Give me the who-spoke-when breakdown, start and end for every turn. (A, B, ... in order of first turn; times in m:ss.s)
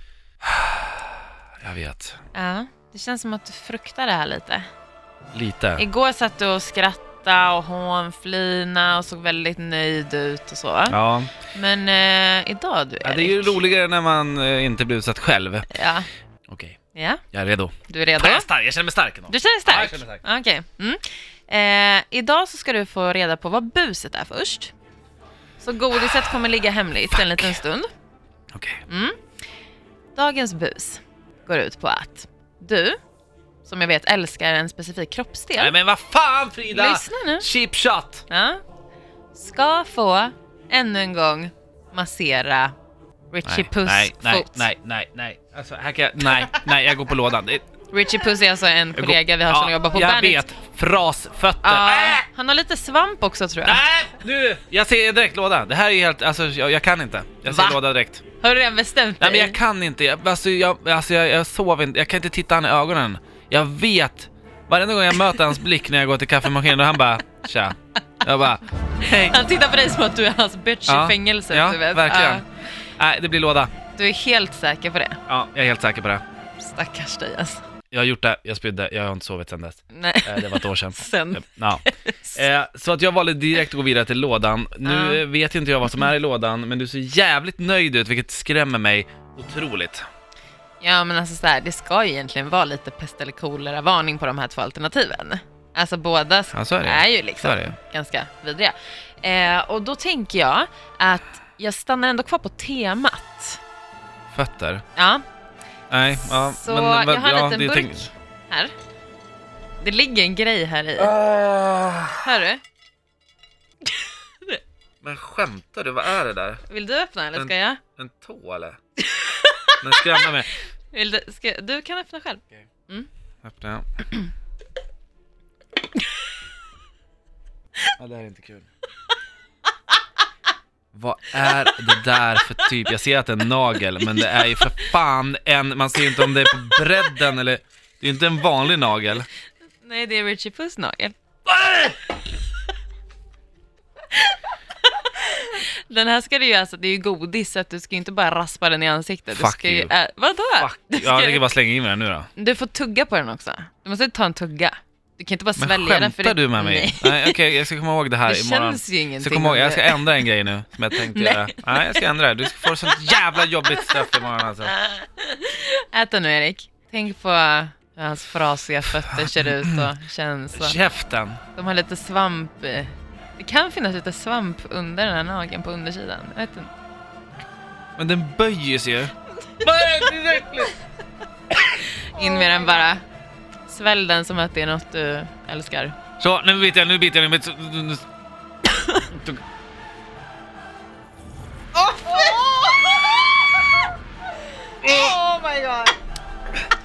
0:00.5-0:01.0 A
0:01.6-0:02.2 A
0:02.3-0:04.7 B
0:05.3-0:05.8 A
0:05.8-0:11.0 B
0:10.9-0:11.3 A
0:11.5-0:13.6 B
0:13.0-0:15.7 A
0:15.7-0:16.1 B
0:16.5-0:16.8 A
0:16.9-0:17.2 B
0:17.3-0:20.2 A
0:17.9-0:18.5 B
0:19.3-0:24.7 B
0:25.6-0:27.9 B
0:27.1-0:27.6 A
0:28.5-0:28.8 A
0:28.9-0:29.2 B
0:30.2-0:33.0 B
0:33.6-0:35.7 B
0:35.6-0:38.2 A
0:36.7-0:37.5 B
0:38.3-0:38.6 B
0:39.3-0:42.7 B
0:43.3-0:44.7 B
0:43.4-0:47.6 A
0:47.9-0:50.4 B
0:48.9-0:52.3 A
0:51.6-0:53.8 B
0:53.6-0:58.2 A
0:57.4-0:57.8 B
0:58.4-0:59.6 B
0:59.2-1:09.3 A
1:09.0-1:12.5 B
1:10.9-1:12.4 A
1:13.0-1:13.7 A
1:14.0-1:15.2 B
1:15.3-1:16.2 A
1:16.6-1:17.6 B
1:17.9-1:30.0 A
1:19.9-1:22.4 B
1:24.8-1:25.2 B
1:30.8-1:43.6 B
1:36.5-1:37.8 A
1:44.3-1:44.8 A
1:45.0-1:45.2 B
1:45.9-1:48.1 A
1:46.2-1:48.7 B
1:49.8-1:51.2 B
1:51.0-1:52.2 A
1:52.2-1:52.6 B
1:55.0-1:56.6 A
1:56.7-1:57.8 B
1:57.4-1:58.8 A
1:59.1-2:00.3 B
1:59.8-2:00.5 A
2:00.9-2:03.1 B
2:03.4-2:03.8 A
2:08.0-2:08.7 A
2:10.9-2:19.3 A
2:14.0-2:14.5 B
2:19.8-2:21.2 B
2:21.6-2:21.9 A
2:24.9-2:31.5 B
2:29.3-2:29.9 A
2:30.6-2:32.3 A
2:32.4-2:37.4 B
2:35.6-2:44.8 A
2:38.2-2:40.2 B
2:40.9-2:42.1 B
2:42.8-2:43.2 B
2:44.8-2:50.8 B
2:49.1-2:49.8 A
2:50.5-2:51.4 A
2:51.6-2:56.7 B
2:58.0-3:00.7 A
3:02.1-3:03.0 B
3:03.7-3:06.0 B
3:06.2-3:08.0 A
3:08.6-3:09.0 B
3:09.1-3:09.4 A
3:11.7-3:13.7 B
3:14.8-3:16.0 B